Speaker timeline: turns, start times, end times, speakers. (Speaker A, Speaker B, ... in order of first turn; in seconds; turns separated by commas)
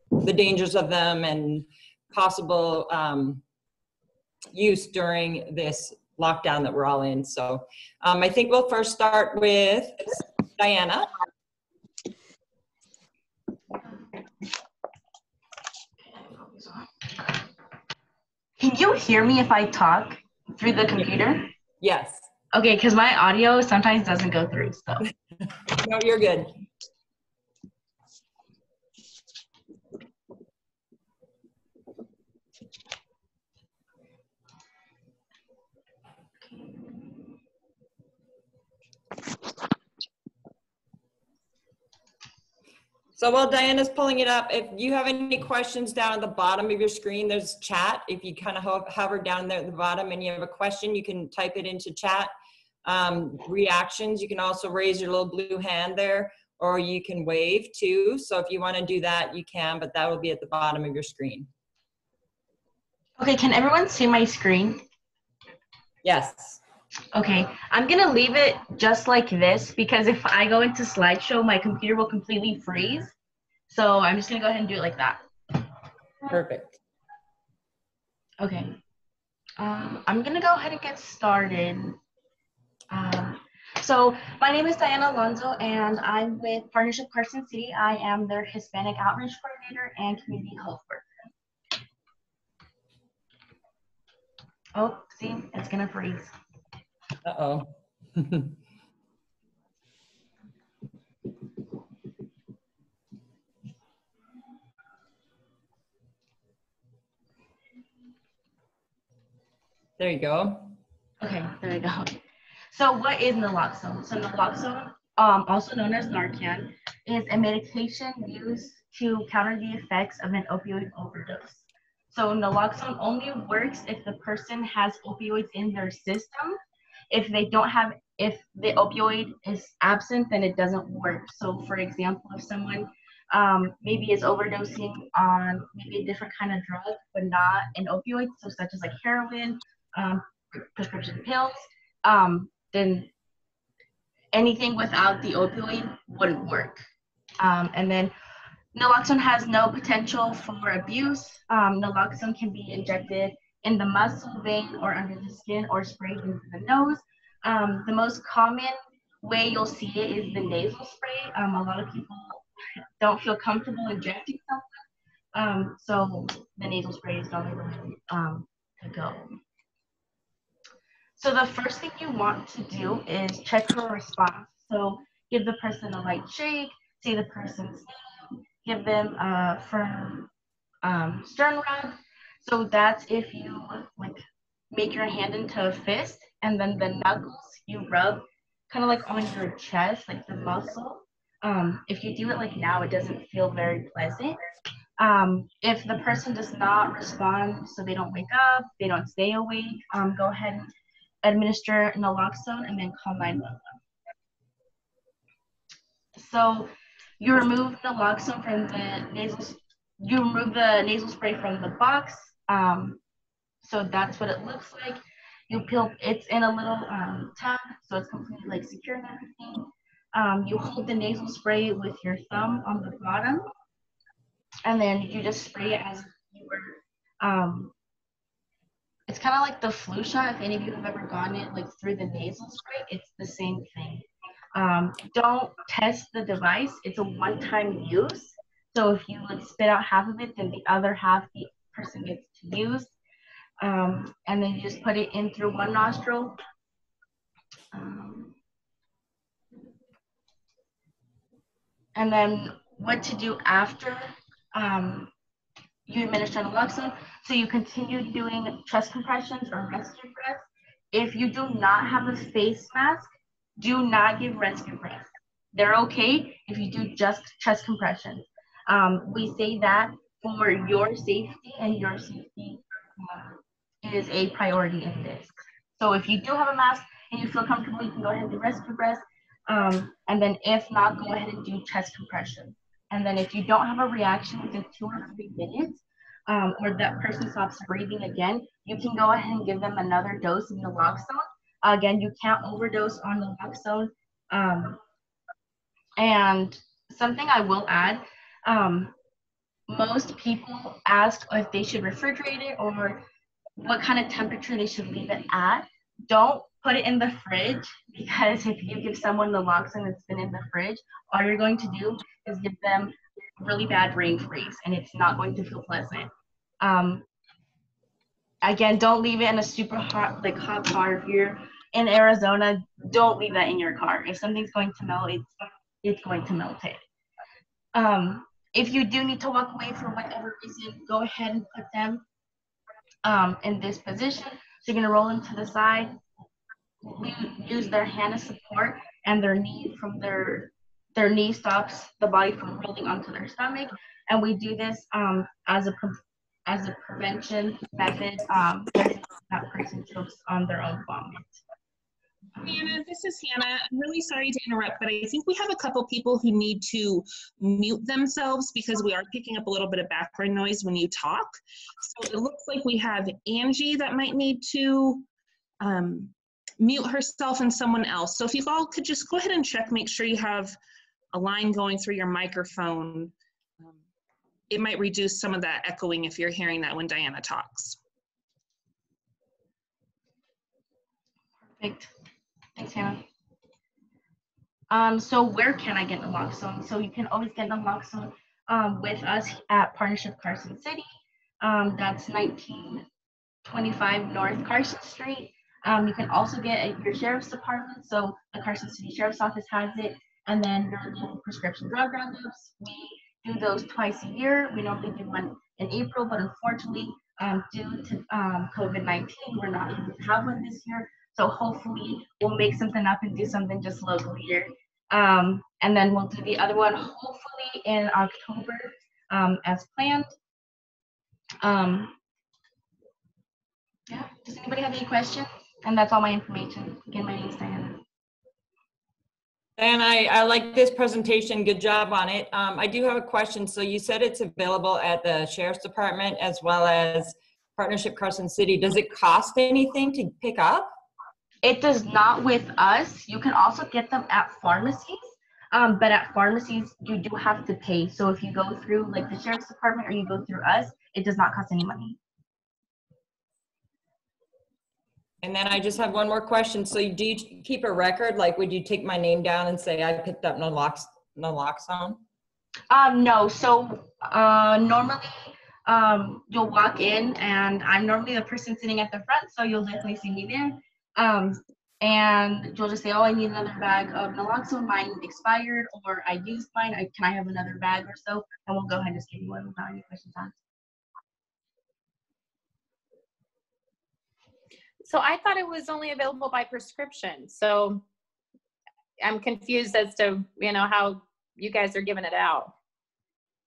Speaker A: 0.2-3.4, Speaker A: 4.5-11.1, Speaker B: 16.1-17.4, Speaker B: 18.6-21.5, Speaker A: 21.8-22.3, Speaker B: 22.5-25.0, Speaker A: 25.6-26.6, Speaker A: 43.2-52.3, Speaker A: 52.9-61.5, Speaker B: 63.2-64.8, Speaker A: 66.0-66.6, Speaker B: 67.1-73.1, Speaker B: 73.7-75.2, Speaker A: 76.3-76.8, Speaker B: 78.4-78.8, Speaker B: 79.6-82.0, Speaker B: 82.9-91.0, Speaker B: 94.8-96.3, Speaker A: 97.2-98.5, Speaker A: 110.0-110.7, Speaker B: 111.2-112.2, Speaker B: 112.7-126.6, Speaker B: 127.1-143.1, Speaker B: 144.3-146.9, Speaker B: 147.4-148.1, Speaker B: 148.7-162.4, Speaker B: 163.0-164.7, Speaker B: 165.3-169.4, Speaker B: 171.2-177.9, Speaker B: 178.6-180.3, Speaker B: 180.8-194.4, Speaker B: 195.0-200.7, Speaker B: 201.2-203.8, Speaker B: 206.2-213.0, Speaker B: 213.6-223.5, Speaker B: 224.7-227.7, Speaker B: 229.1-242.9, Speaker B: 243.6-246.4, Speaker B: 247.7-248.3, Speaker B: 251.9-255.1, Speaker B: 255.9-294.8, Speaker B: 296.0-298.9, Speaker B: 299.7-303.1, Speaker B: 303.6-317.1, Speaker B: 318.4-326.8, Speaker B: 327.7-332.0, Speaker B: 333.0-336.0, Speaker B: 336.8-351.4, Speaker C: 352.4-365.1, Speaker C: 365.6-370.6, Speaker C: 371.1-373.7, Speaker C: 374.5-377.8, Speaker B: 381.6-381.9, Speaker B: 382.6-383.1, Speaker B: 384.7-390.9, Speaker B: 391.4-392.9, Speaker B: 393.4-420.1, Speaker B: 421.4-421.9, Speaker B: 423.9-427.8, Speaker A: 429.6-440.7, Speaker B: 441.4-452.0, Speaker A: 455.2-462.0, Speaker B: 462.7-480.3, Speaker D: 484.8-487.8, Speaker D: 489.0-492.5